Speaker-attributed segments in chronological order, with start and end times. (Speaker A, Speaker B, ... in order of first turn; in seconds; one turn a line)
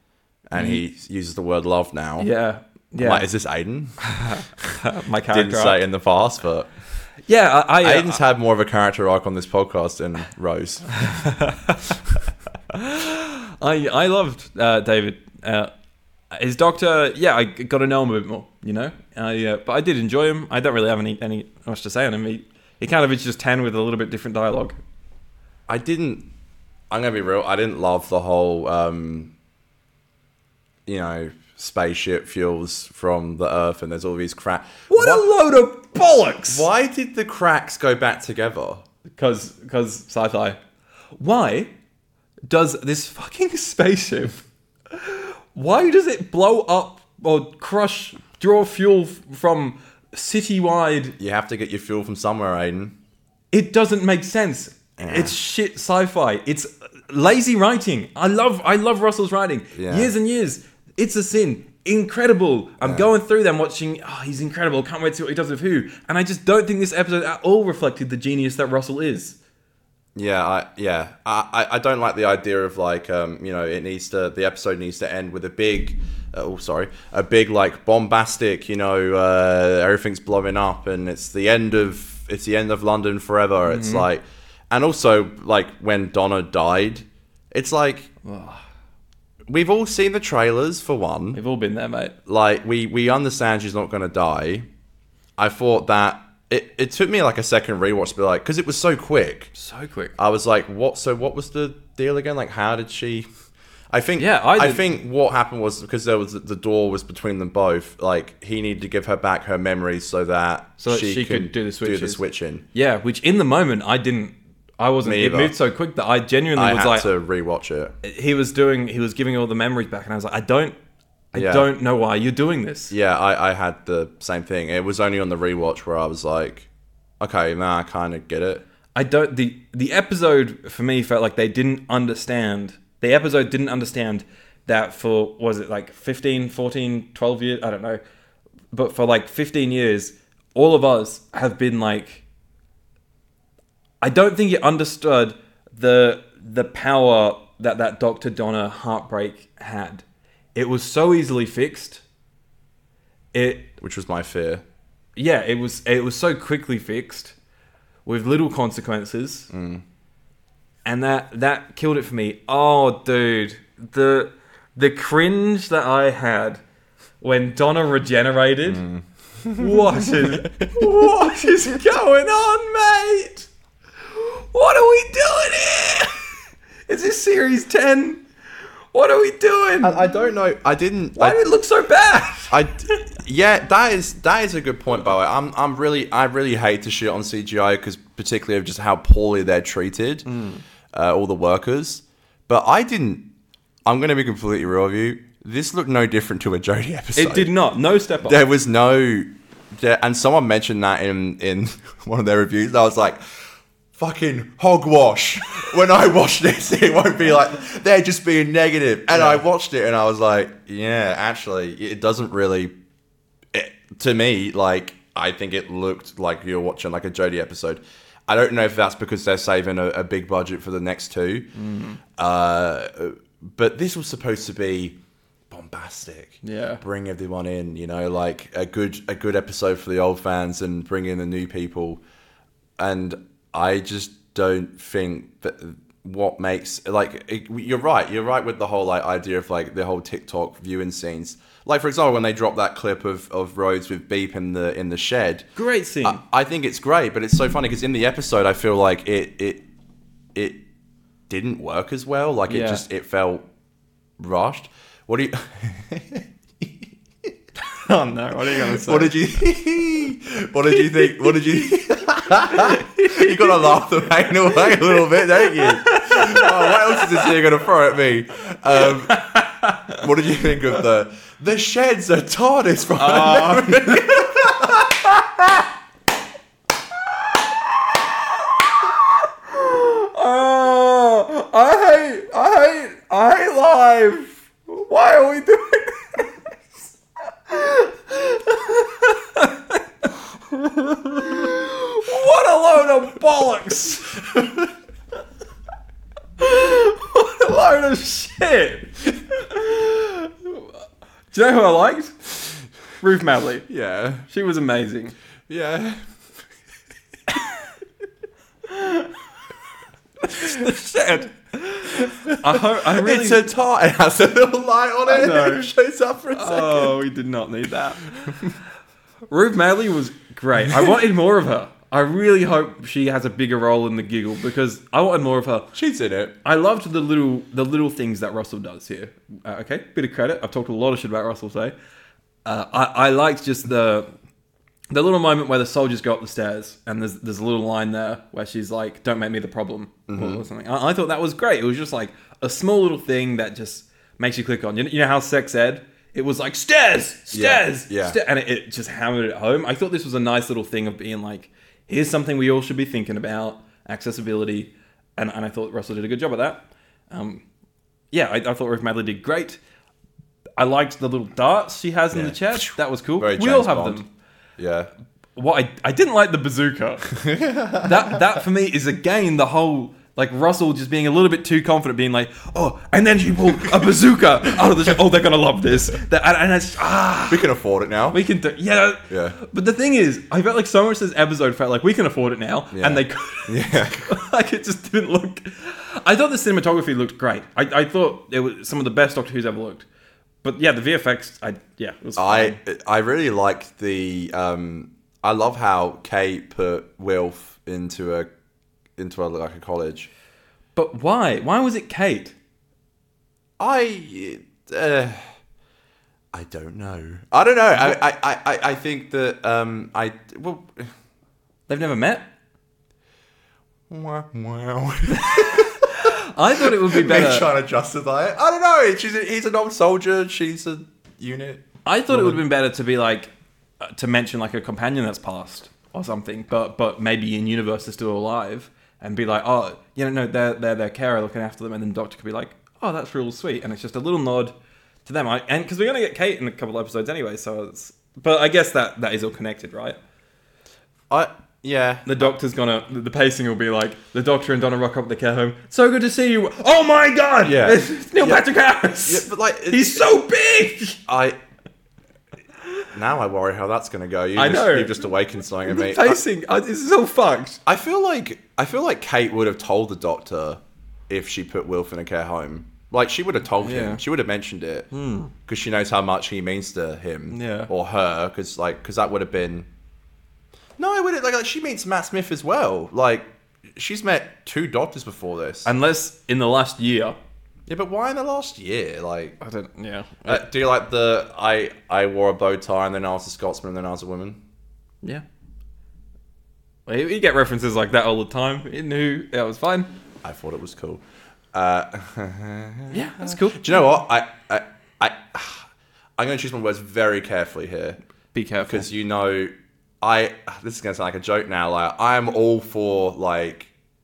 Speaker A: 0.5-2.3
Speaker B: 0.6-0.8
Speaker B: 2.2-3.3
Speaker A: 3.0-4.0
Speaker B: 4.0-5.8
Speaker A: 5.3-6.7
Speaker B: 7.3-8.2
Speaker A: 7.8-11.1
Speaker B: 11.0-12.0
Speaker B: 12.7-15.7
Speaker B: 16.3-24.8
Speaker A: 25.7-26.3
Speaker A: 26.9-29.3
Speaker A: 30.9-35.3
Speaker B: 34.9-36.7
Speaker A: 36.5-38.9
Speaker B: 39.1-40.6
Speaker B: 41.2-41.7
Speaker B: 42.5-51.2
Speaker A: 51.2-53.0
Speaker B: 53.5-69.4
Speaker A: 55.0-55.4
Speaker A: 59.7-60.1
Speaker A: 62.8-63.1
Speaker A: 70.2-88.1
Speaker B: 83.7-84.1
Speaker B: 88.2-88.6
Speaker A: 89.5-91.4
Speaker B: 91.3-92.2
Speaker A: 92.3-94.7
Speaker A: 95.4-99.5
Speaker B: 99.5-100.1
Speaker A: 100.2-103.3
Speaker A: 103.9-112.7
Speaker B: 104.2-104.8
Speaker B: 110.8-112.2
Speaker B: 112.7-117.1
Speaker A: 115.0-115.5
Speaker A: 116.5-117.9
Speaker B: 118.0-120.8
Speaker B: 121.3-122.9
Speaker A: 121.3-121.7
Speaker A: 122.9-126.7
Speaker A: 127.2-128.6
Speaker B: 128.9-138.0
Speaker B: 138.7-142.2
Speaker B: 144.0-152.0
Speaker B: 153.3-153.7
Speaker A: 153.8-154.6
Speaker B: 155.2-157.3
Speaker B: 158.1-159.5
Speaker A: 159.5-159.8
Speaker B: 160.9-166.6
Speaker B: 167.2-168.9
Speaker A: 168.7-171.4
Speaker B: 169.6-173.5
Speaker B: 174.1-176.2
Speaker B: 176.9-178.2
Speaker B: 178.9-180.1
Speaker A: 179.8-181.4
Speaker B: 181.2-183.0
Speaker A: 182.5-190.3
Speaker B: 190.3-190.6
Speaker A: 190.9-193.3
Speaker A: 193.9-197.5
Speaker B: 197.2-198.4
Speaker A: 198.2-203.2
Speaker A: 203.9-212.7
Speaker B: 209.1-209.4
Speaker A: 213.5-221.5
Speaker B: 221.6-222.0
Speaker A: 222.2-225.0
Speaker A: 225.5-232.0
Speaker B: 226.4-226.8
Speaker A: 232.8-245.5
Speaker B: 245.6-246.2
Speaker A: 246.0-249.6
Speaker A: 250.3-250.6
Speaker A: 251.3-253.4
Speaker B: 252.5-252.8
Speaker A: 254.2-256.8
Speaker B: 257.7-259.1
Speaker A: 258.7-269.3
Speaker B: 262.5-263.8
Speaker B: 264.5-267.3
Speaker B: 268.7-270.0
Speaker A: 269.9-274.9
Speaker B: 272.9-274.3
Speaker B: 278.5-286.3
Speaker B: 287.5-289.8
Speaker B: 290.5-294.3
Speaker B: 296.4-300.7
Speaker B: 301.3-303.7
Speaker A: 303.7-304.3
Speaker B: 304.3-305.1
Speaker A: 305.5-306.0
Speaker B: 308.7-309.1
Speaker B: 310.2-313.4
Speaker A: 310.4-310.7
Speaker A: 312.0-317.0
Speaker B: 315.1-315.7
Speaker B: 316.3-318.6
Speaker B: 319.3-325.7
Speaker A: 325.7-326.4
Speaker B: 326.4-331.8
Speaker B: 332.4-334.1
Speaker B: 334.9-357.4
Speaker A: 340.1-340.4
Speaker A: 347.3-348.2
Speaker B: 358.1-359.6
Speaker B: 360.6-364.1
Speaker A: 362.1-364.0
Speaker A: 364.6-364.9
Speaker B: 365.4-367.1
Speaker A: 367.1-368.2
Speaker B: 367.8-377.4
Speaker A: 377.3-378.2
Speaker B: 378.1-389.9
Speaker A: 379.1-379.4
Speaker A: 382.7-384.2
Speaker B: 390.4-392.6
Speaker A: 392.2-398.3
Speaker A: 399.0-400.1
Speaker B: 400.8-402.4
Speaker A: 403.6-405.3
Speaker A: 406.3-410.9
Speaker B: 411.7-412.3
Speaker A: 413.9-422.4
Speaker B: 415.1-417.5
Speaker B: 421.9-434.5
Speaker B: 435.1-440.0
Speaker A: 441.1-442.3
Speaker B: 442.1-451.0
Speaker A: 447.4-448.5
Speaker A: 449.0-450.1
Speaker A: 451.1-451.4
Speaker A: 452.9-456.2
Speaker B: 454.4-455.0
Speaker B: 455.6-457.6
Speaker A: 457.7-464.9
Speaker B: 463.6-464.0
Speaker B: 464.9-465.3
Speaker A: 465.5-469.7
Speaker B: 467.3-467.7
Speaker A: 470.8-475.7
Speaker B: 475.6-477.2
Speaker A: 477.7-479.4
Speaker B: 479.4-480.4
Speaker A: 480.2-484.4
Speaker B: 486.9-489.9
Speaker A: 490.2-498.0
Speaker B: 492.9-493.7
Speaker B: 498.3-498.9
Speaker A: 498.7-503.7